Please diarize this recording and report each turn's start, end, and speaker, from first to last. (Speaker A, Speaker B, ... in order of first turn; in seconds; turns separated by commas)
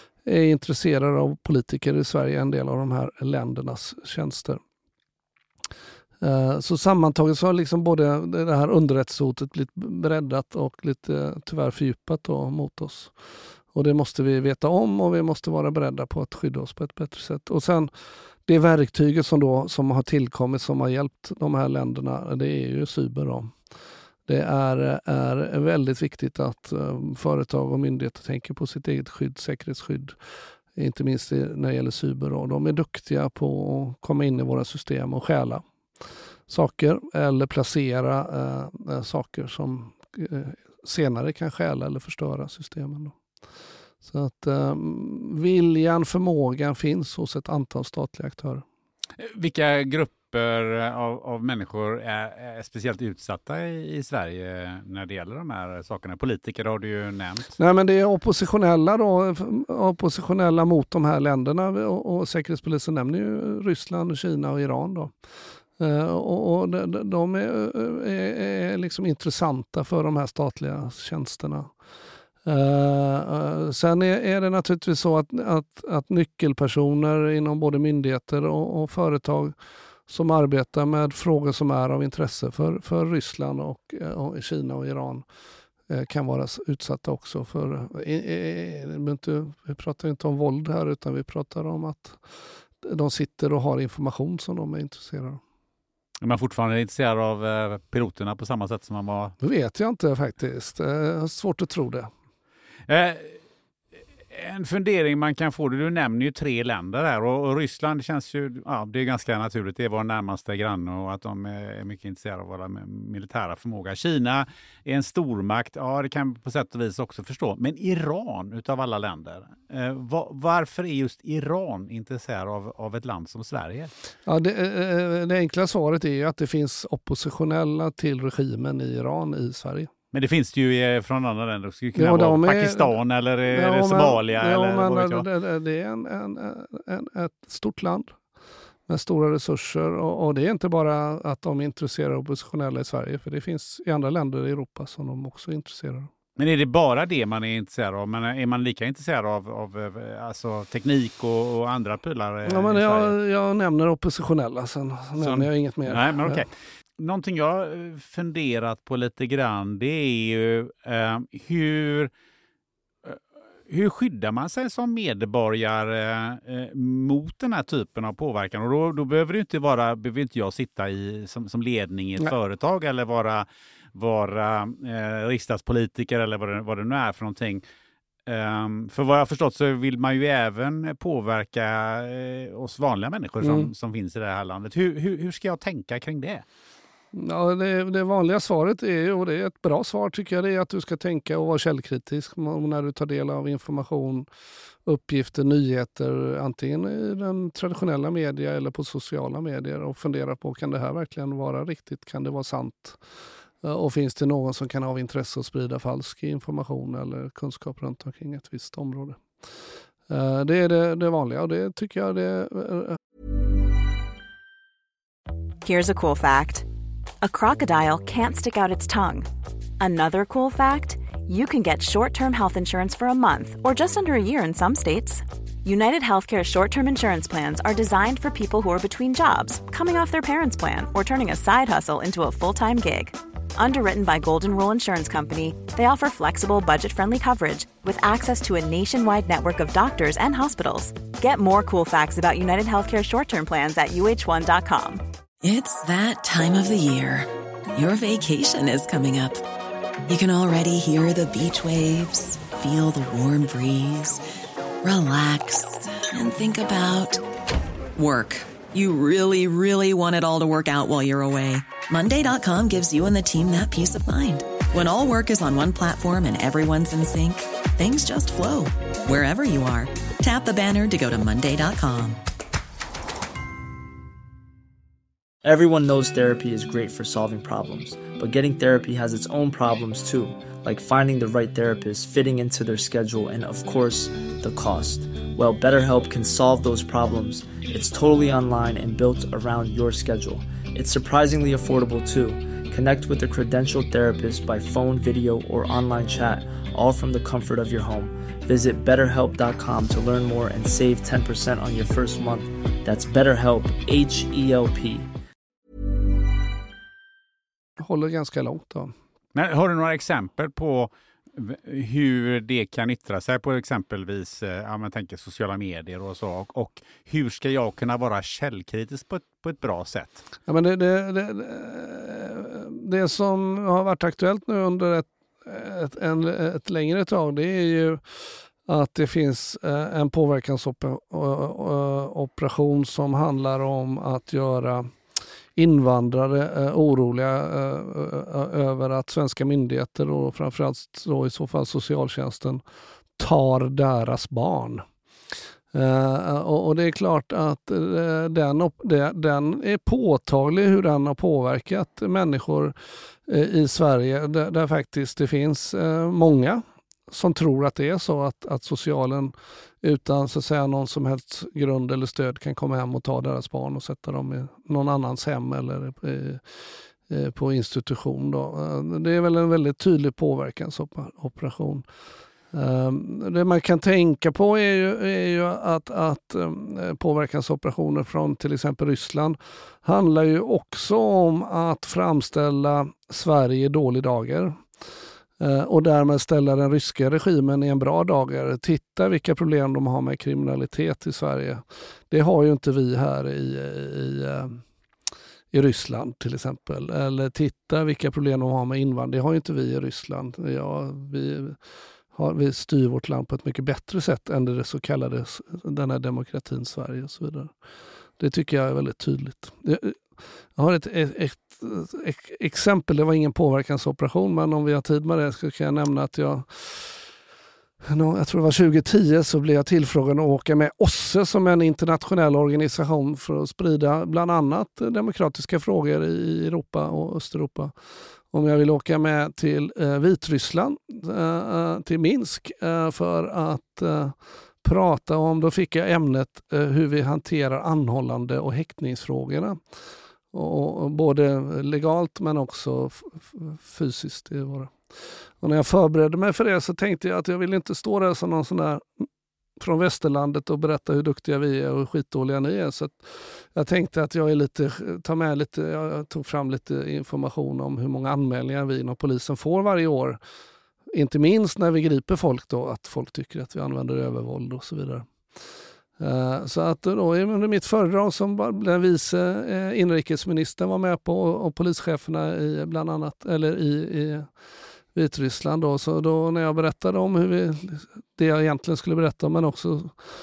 Speaker A: 0.2-4.6, Speaker A: 6.2-13.1, Speaker A: 13.7-17.9, Speaker A: 18.5-23.5, Speaker A: 24.3-30.1, Speaker A: 30.8-35.6, Speaker A: 36.5-43.1, Speaker A: 44.0-48.6, Speaker B: 49.2-57.5, Speaker A: 57.6-65.1, Speaker A: 65.8-71.7, Speaker A: 72.4-79.5, Speaker A: 80.1-85.2, Speaker A: 85.9-92.2, Speaker A: 92.8-95.4, Speaker B: 96.2-99.3, Speaker A: 99.4-102.1, Speaker B: 102.9-103.4, Speaker B: 104.3-123.9, Speaker A: 124.2-129.9, Speaker B: 130.1-135.2, Speaker A: 131.9-132.9, Speaker A: 133.5-138.1, Speaker A: 138.9-146.1, Speaker B: 146.4-153.1, Speaker A: 152.5-156.4, Speaker B: 155.2-162.1, Speaker B: 163.0-177.6, Speaker B: 178.2-186.4, Speaker A: 183.4-183.7, Speaker A: 187.1-194.2, Speaker A: 194.8-203.0, Speaker A: 203.6-209.2, Speaker A: 210.1-213.0, Speaker C: 215.6-216.7, Speaker C: 217.2-219.3, Speaker C: 219.8-245.0, Speaker D: 245.4-249.4, Speaker D: 250.1-254.2, Speaker D: 254.8-257.2, Speaker D: 258.0-272.2, Speaker E: 275.4-305.1, Speaker A: 307.8-308.9, Speaker B: 309.3-320.2, Speaker A: 320.5-334.9, Speaker A: 335.6-342.6, Speaker A: 343.2-344.8, Speaker A: 345.7-352.7, Speaker A: 353.3-366.4, Speaker A: 367.1-371.8, Speaker A: 372.5-384.6, Speaker A: 385.4-394.6, Speaker A: 395.5-401.6, Speaker A: 402.1-407.5, Speaker A: 408.2-410.0, Speaker A: 410.6-417.0, Speaker A: 417.8-427.7, Speaker A: 428.3-439.6, Speaker A: 440.3-444.7, Speaker A: 445.4-449.1, Speaker A: 449.6-460.2, Speaker A: 460.9-465.1, Speaker A: 466.0-474.3, Speaker A: 474.9-479.9